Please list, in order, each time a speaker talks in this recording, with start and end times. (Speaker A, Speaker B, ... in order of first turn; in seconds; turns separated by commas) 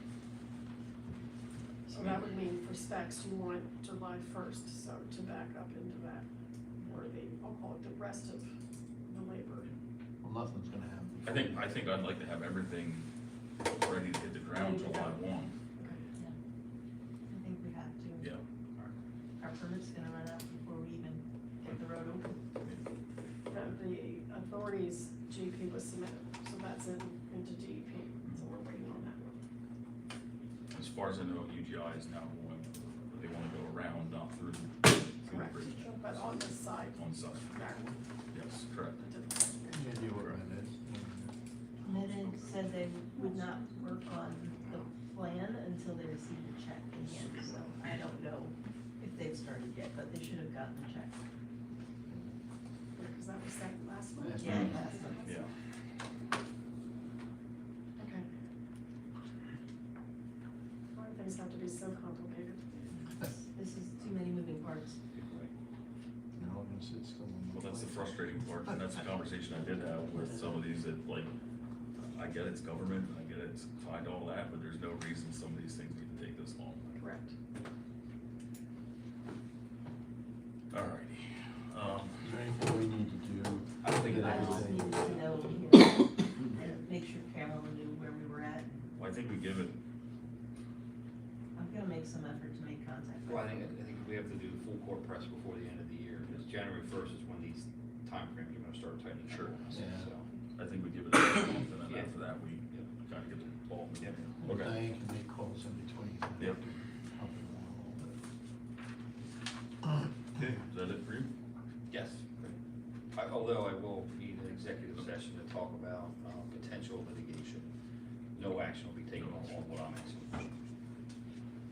Speaker A: 1.9-6.3, Speaker B: 1.9-2.2, Speaker A: 6.8-8.5, Speaker A: 9.0-9.7, Speaker C: 10.2-11.3, Speaker B: 11.2-13.1, Speaker B: 13.7-15.6, Speaker A: 14.6-15.2, Speaker A: 15.8-16.0, Speaker D: 17.3-18.3, Speaker D: 19.4-22.4, Speaker A: 23.5-29.4, Speaker B: 30.7-36.4, Speaker A: 35.2-38.0, Speaker B: 36.9-37.6, Speaker B: 38.3-39.0, Speaker A: 39.0-39.9, Speaker C: 39.7-41.3, Speaker D: 41.8-51.2, Speaker A: 43.2-43.7, Speaker A: 53.0-55.5, Speaker C: 54.2-54.9, Speaker D: 54.4-55.2, Speaker B: 55.2-55.5, Speaker A: 58.0-58.3, Speaker A: 60.9-62.6, Speaker E: 62.7-63.1, Speaker D: 63.0-65.0, Speaker E: 65.1-65.5, Speaker C: 66.4-68.9, Speaker B: 67.5-71.3, Speaker B: 72.0-76.9, Speaker A: 77.0-77.4, Speaker B: 80.7-82.2, Speaker C: 82.2-85.0, Speaker E: 83.8-85.5, Speaker D: 84.1-88.8, Speaker B: 89.0-89.8, Speaker D: 91.6-93.7, Speaker E: 93.2-100.3, Speaker B: 99.3-99.5, Speaker C: 99.7-100.1, Speaker B: 100.5-104.7, Speaker E: 101.8-102.2, Speaker C: 104.4-108.2, Speaker B: 110.3-111.3, Speaker E: 111.9-112.6, Speaker E: 113.1-117.7, Speaker E: 118.3-120.5, Speaker B: 119.1-119.6